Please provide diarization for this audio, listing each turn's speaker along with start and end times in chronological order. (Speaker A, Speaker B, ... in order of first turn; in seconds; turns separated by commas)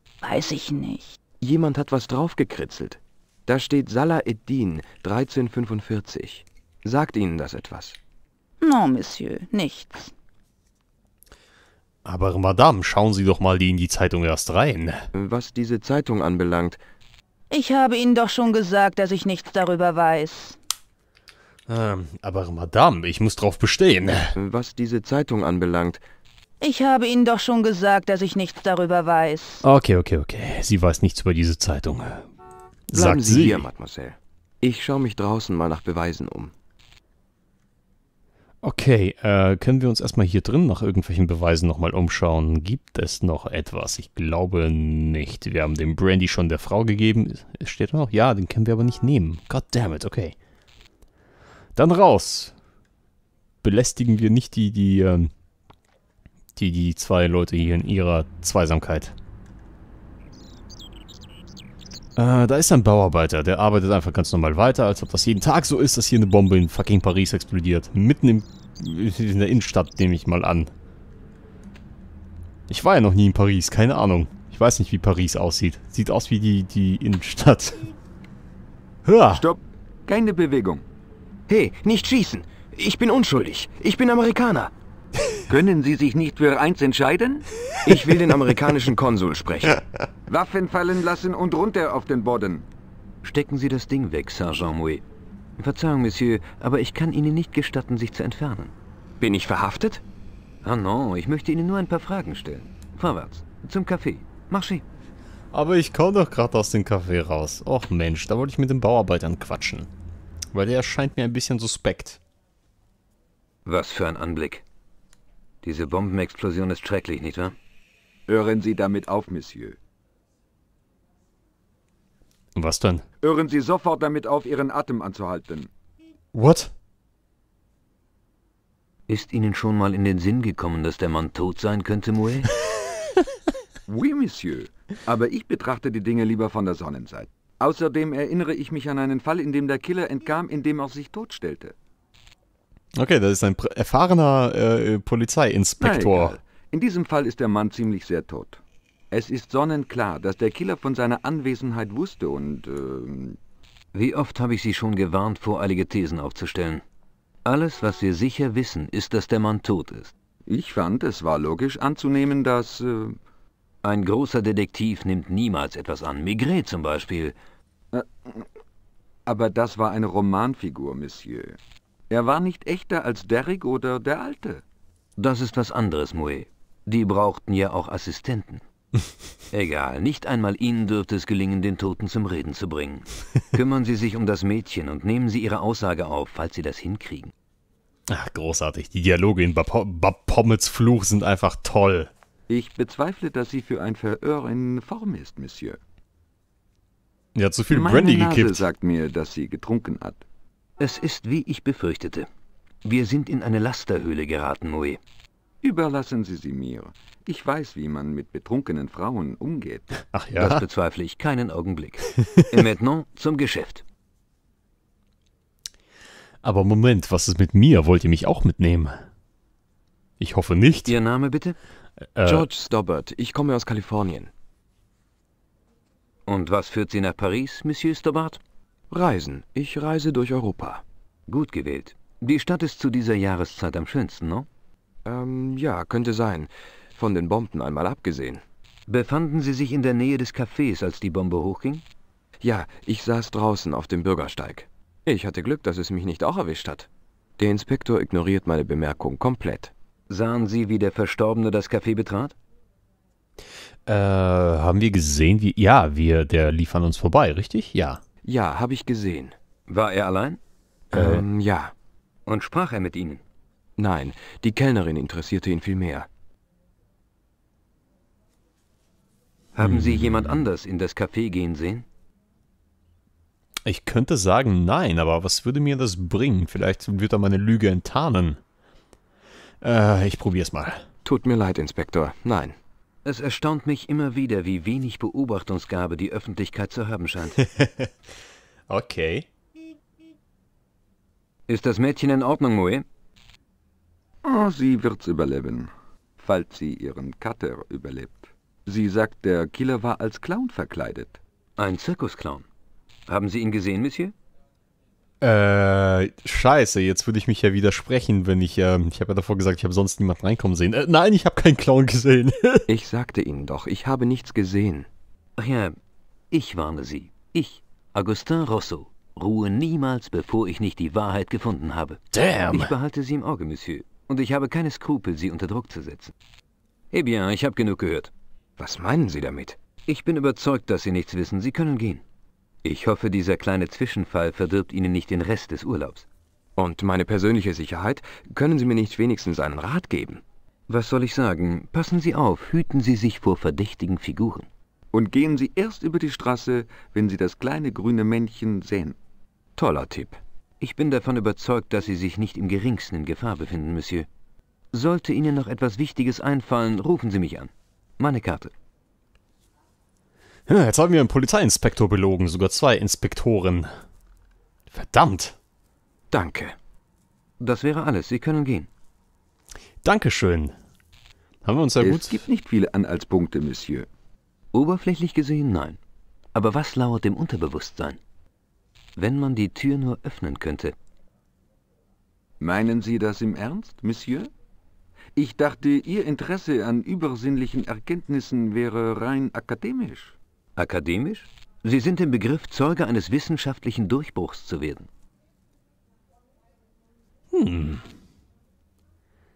Speaker A: 0.2-1.2, Speaker B: 1.4-8.0, Speaker A: 8.6-10.1, Speaker C: 12.0-15.1, Speaker B: 15.1-16.8, Speaker A: 17.5-20.6, Speaker C: 21.7-24.4, Speaker B: 24.3-26.0, Speaker A: 26.6-29.6, Speaker C: 29.6-32.3, Speaker C: 32.9-33.7, Speaker B: 32.9-36.5, Speaker C: 38.6-50.3, Speaker C: 51.8-52.5, Speaker C: 53.6-55.3, Speaker C: 56.5-59.1, Speaker C: 62.1-70.7, Speaker C: 72.7-77.9, Speaker C: 79.0-79.5, Speaker D: 79.3-80.8, Speaker B: 81.5-84.7, Speaker D: 85.5-87.5, Speaker B: 87.8-89.8, Speaker D: 90.3-92.7, Speaker E: 93.2-95.0, Speaker E: 95.6-98.7, Speaker B: 99.2-100.0, Speaker E: 100.6-104.8, Speaker C: 105.5-109.9, Speaker C: 110.5-112.2, Speaker E: 113.6-114.6, Speaker E: 115.6-117.5, Speaker D: 118.3-119.8, Speaker C: 122.5-123.0, Speaker D: 123.2-125.7, Speaker C: 126.3-126.7, Speaker E: 129.1-132.5, Speaker D: 133.9-141.7, Speaker C: 142.9-146.4, Speaker D: 145.8-148.6, Speaker D: 149.1-153.4, Speaker E: 153.9-156.8, Speaker E: 157.4-160.1, Speaker D: 160.5-163.2, Speaker E: 163.8-167.3, Speaker D: 167.9-168.4, Speaker D: 169.2-171.6, Speaker D: 172.1-174.6, Speaker E: 175.2-178.6, Speaker E: 179.5-187.3, Speaker C: 188.1-192.1, Speaker D: 192.5-195.8, Speaker C: 197.3-198.6, Speaker D: 197.7-200.2, Speaker E: 200.8-202.3, Speaker E: 202.8-205.0, Speaker D: 205.6-210.0, Speaker C: 210.1-210.6, Speaker E: 210.3-213.8, Speaker C: 212.2-212.7, Speaker C: 216.4-219.0, Speaker C: 220.2-220.9, Speaker E: 220.9-221.6, Speaker C: 222.1-222.5, Speaker B: 222.2-224.3, Speaker E: 226.3-228.4, Speaker B: 228.9-230.8, Speaker E: 231.3-234.5, Speaker B: 235.0-238.4, Speaker E: 238.9-241.8, Speaker B: 242.4-246.9, Speaker B: 247.4-249.7, Speaker E: 250.1-252.3, Speaker C: 253.8-258.0, Speaker B: 258.2-259.3, Speaker E: 259.7-260.4, Speaker B: 260.9-261.7, Speaker C: 260.9-261.2, Speaker E: 262.2-263.2, Speaker B: 263.8-266.1, Speaker E: 269.5-271.8, Speaker C: 273.6-278.4, Speaker C: 279.6-280.9, Speaker B: 281.0-282.5, Speaker E: 283.0-287.4, Speaker C: 287.4-287.9, Speaker C: 288.7-289.3, Speaker E: 291.5-292.8, Speaker D: 294.2-301.2, Speaker E: 301.6-302.4, Speaker E: 303.1-304.1, Speaker C: 305.2-312.7, Speaker B: 312.7-314.9, Speaker E: 315.4-315.8, Speaker E: 316.3-326.1, Speaker C: 322.1-322.7, Speaker E: 326.9-328.1, Speaker B: 328.6-329.6, Speaker E: 329.9-332.0, Speaker E: 332.6-336.1, Speaker B: 336.6-340.2, Speaker E: 340.7-344.5, Speaker D: 344.9-349.0, Speaker B: 349.6-350.2, Speaker E: 350.6-354.1, Speaker E: 354.7-358.5, Speaker C: 360.5-363.7, Speaker C: 364.7-365.4, Speaker B: 366.1-366.5, Speaker E: 367.4-368.7, Speaker C: 369.8-370.5, Speaker C: 371.4-372.2, Speaker D: 371.8-373.9, Speaker E: 374.5-375.8, Speaker E: 376.3-378.0, Speaker E: 378.9-380.7, Speaker D: 382.4-384.3, Speaker D: 385.1-390.1, Speaker E: 390.6-394.9, Speaker C: 397.3-397.9